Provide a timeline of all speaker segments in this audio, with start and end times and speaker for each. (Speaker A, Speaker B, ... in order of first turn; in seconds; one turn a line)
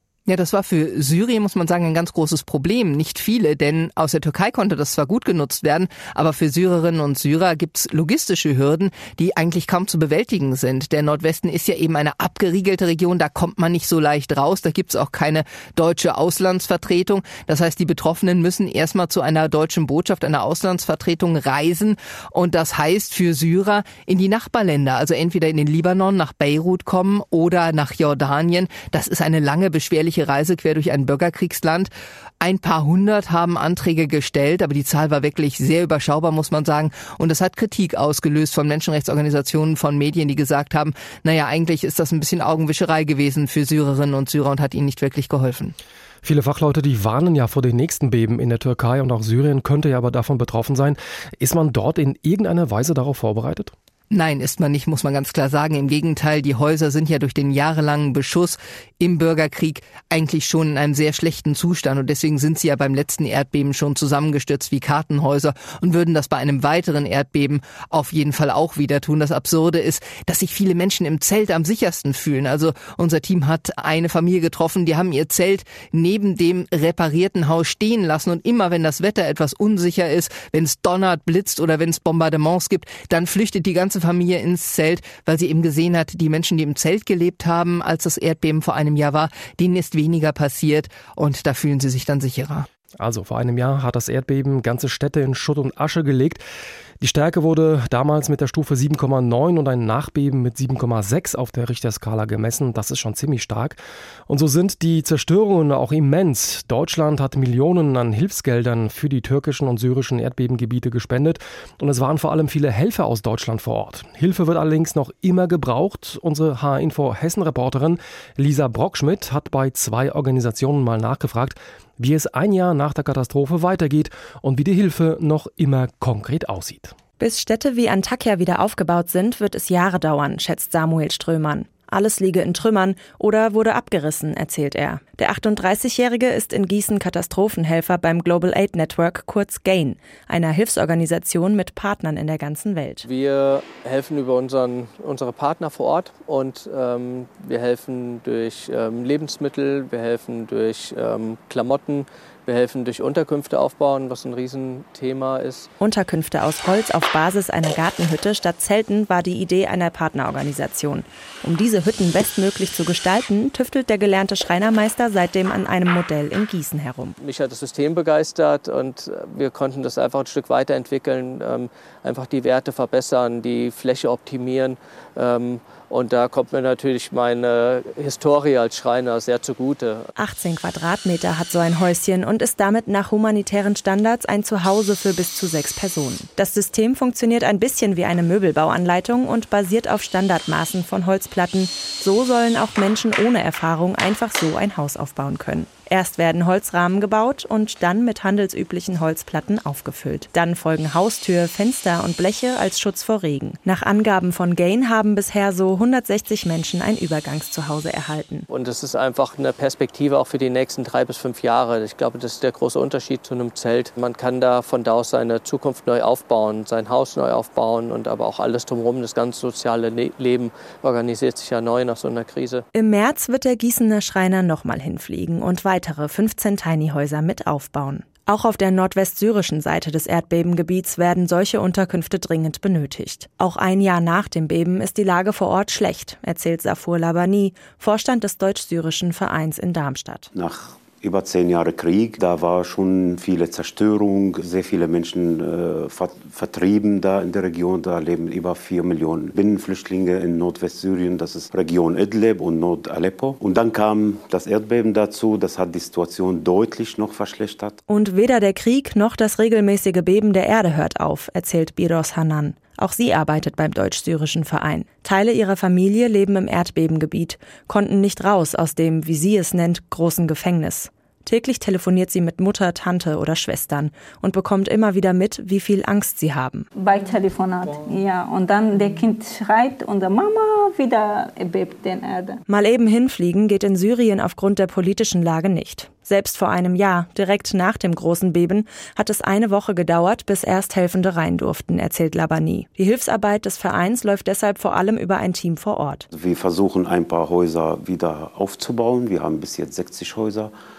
Speaker A: 0.3-45.7
Speaker B: 46.2-53.7
Speaker A: 54.1-92.7
Speaker B: 93.0-96.4
Speaker B: 97.0-126.9
Speaker C: 127.2-143.0
Speaker D: 143.0-155.7
Speaker C: 155.8-167.2
Speaker D: 167.2-180.1
Speaker C: 180.2-208.5
Speaker D: 208.5-222.6
Speaker C: 222.7-240.3
Speaker E: 240.3-257.8
Speaker C: 257.9-276.7
Speaker F: 276.7-282.4
Speaker C: 282.5-296.1
Speaker E: 296.1-300.5